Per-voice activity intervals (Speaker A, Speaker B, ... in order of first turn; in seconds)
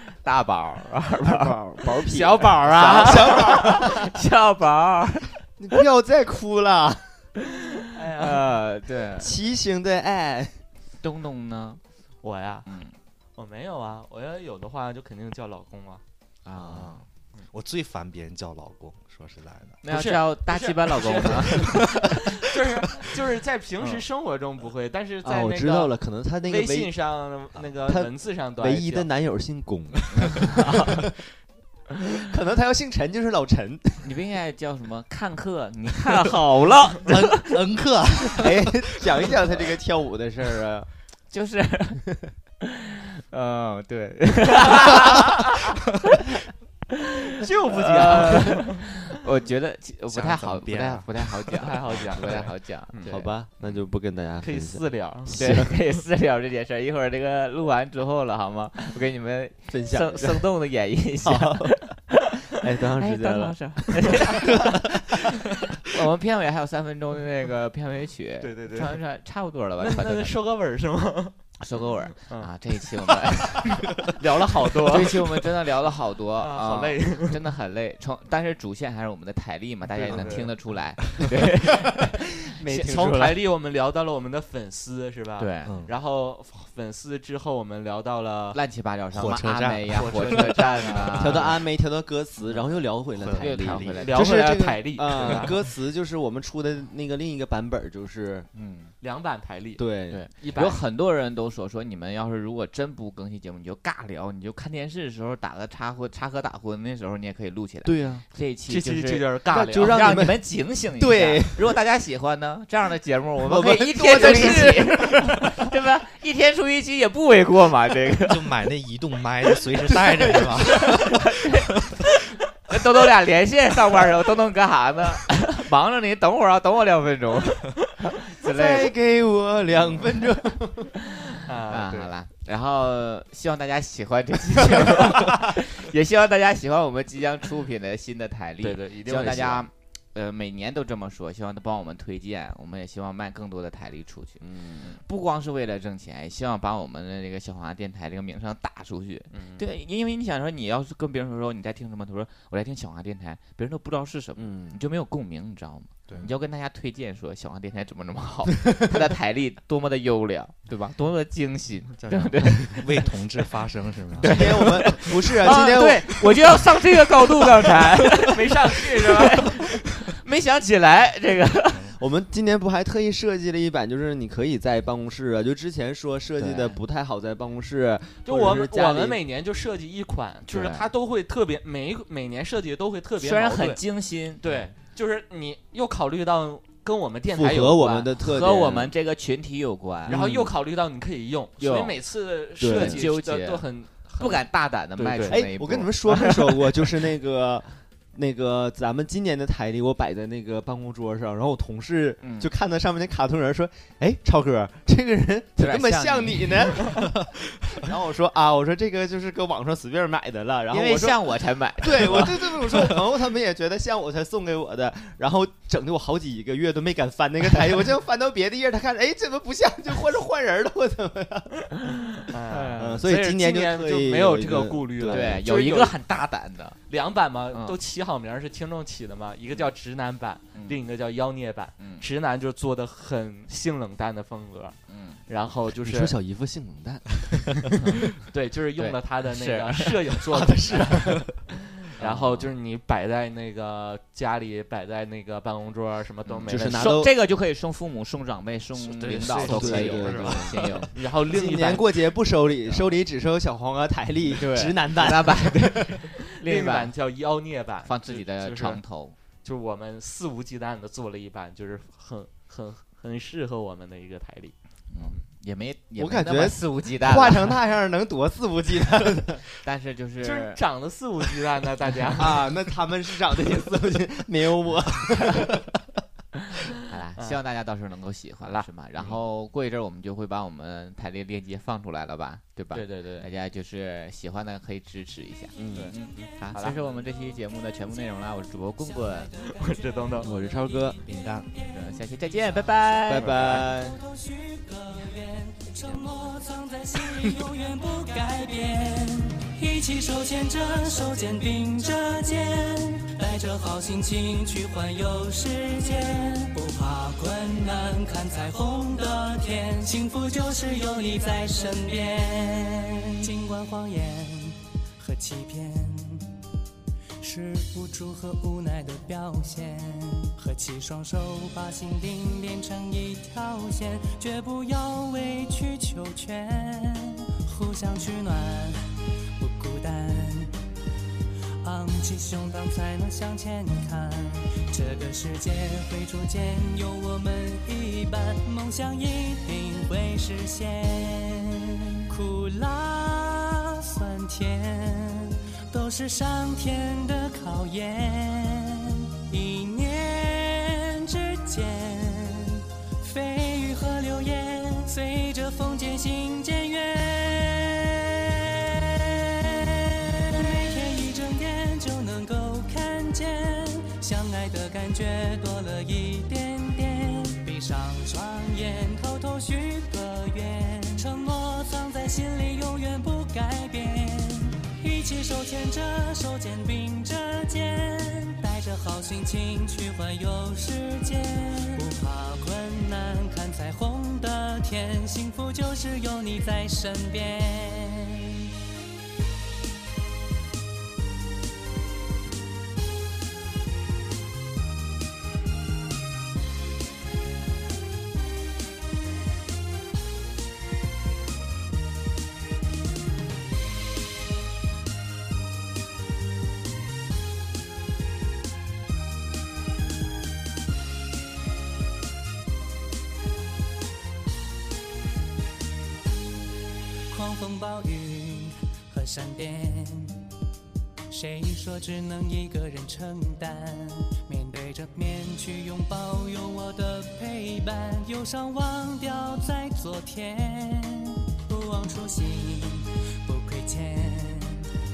Speaker A: 0.2-5.3, 8.2-9.3, 11.0-11.8, 12.7-12.9, 16.4-17.0, 19.8-22.2, 30.2-31.0, 34.0-37.6, 41.3-42.0, 42.6-45.8, 47.7-53.8, 55.3-62.4, 62.9-64.9, 65.8-70.3, 71.6-74.0, 74.9-83.4, 85.4-85.8, 88.5-91.6, 93.3-94.2, 98.5-98.9, 100.1-118.6, 120.0-121.7, 122.7-128.9, 131.7-163.2, 164.2-168.5, 169.1-172.0, 176.4-176.8, 180.5-180.9, 183.2-184.4, 188.2-190.3, 191.6-192.0, 192.6-196.9, 202.2-202.5, 205.6-206.9, 210.7-212.8, 222.5-222.9, 225.1-226.8, 227.5-227.8, 230.5-230.8, 231.8-232.0, 234.9-235.2, 238.8-239.9, 242.0-242.5, 246.3-250.9, 254.3-256.9, 257.9-259.1, 264.9-267.6, 269.6-270.6, 276.9-289.4, 291.1-293.8, 295.8-296.1
Speaker B: 1.2-4.1, 5.6-7.3, 9.2-10.6, 25.2-26.9, 27.8-31.1, 32.0-34.1, 38.3-40.9, 53.0-55.8, 59.7-60.5, 61.2-64.4, 91.1-98.5, 99.8-100.2, 107.8-108.2, 109.5-111.7, 113.4-115.7, 128.4-130.9, 144.4-145.0, 154.3-154.8, 164.2-166.5, 171.9-179.2, 187.3-188.9, 190.1-190.5, 192.6-193.0, 195.2-221.7, 222.8-225.4, 235.7-238.0, 246.4-247.1, 249.3-255.9, 266.0-269.4, 272.1-275.7, 285.6-285.9, 290.2-291.0, 293.1-294.0
Speaker C: 2.1-3.4, 7.9-8.4, 12.2-12.7, 13.3-16.0, 19.9-25.9, 26.4-29.1, 47.4-48.8, 51.6-53.2, 54.4-55.3, 68.4-69.0, 69.8-71.6, 72.1-72.5, 74.0-75.1, 76.4-77.4, 79.9-80.5, 82.6-88.6, 89.9-91.4, 94.0-95.5, 99.0-99.8, 100.4-100.8, 108.7-110.1, 131.4-132.1, 138.6-139.7, 149.3-149.6, 168.3-169.4, 178.2-183.8, 184.4-188.1, 190.1-195.4, 222.3-225.9, 226.9-234.8, 235.3-236.1, 238.3-241.2, 241.8-247.0, 249.2-251.9, 256.3-258.8, 259.4-265.2, 270.2-272.4, 278.4-279.1, 282.7-283.3, 285.7-286.8, 289.5-290.3
Speaker D: 16.6-19.8, 37.0-38.7, 50.1-52.4, 81.1-81.3, 85.6-85.9, 89.1-90.1, 93.1-94.2, 118.3-121.6, 162.0-165.1, 240.9-241.2, 248.8-250.9
Speaker E: 288.9-292.1, 293.6-316.3, 317.2-328.8, 329.4-330.5, 331.6-388.4, 417.1-420.3, 421.1-434.7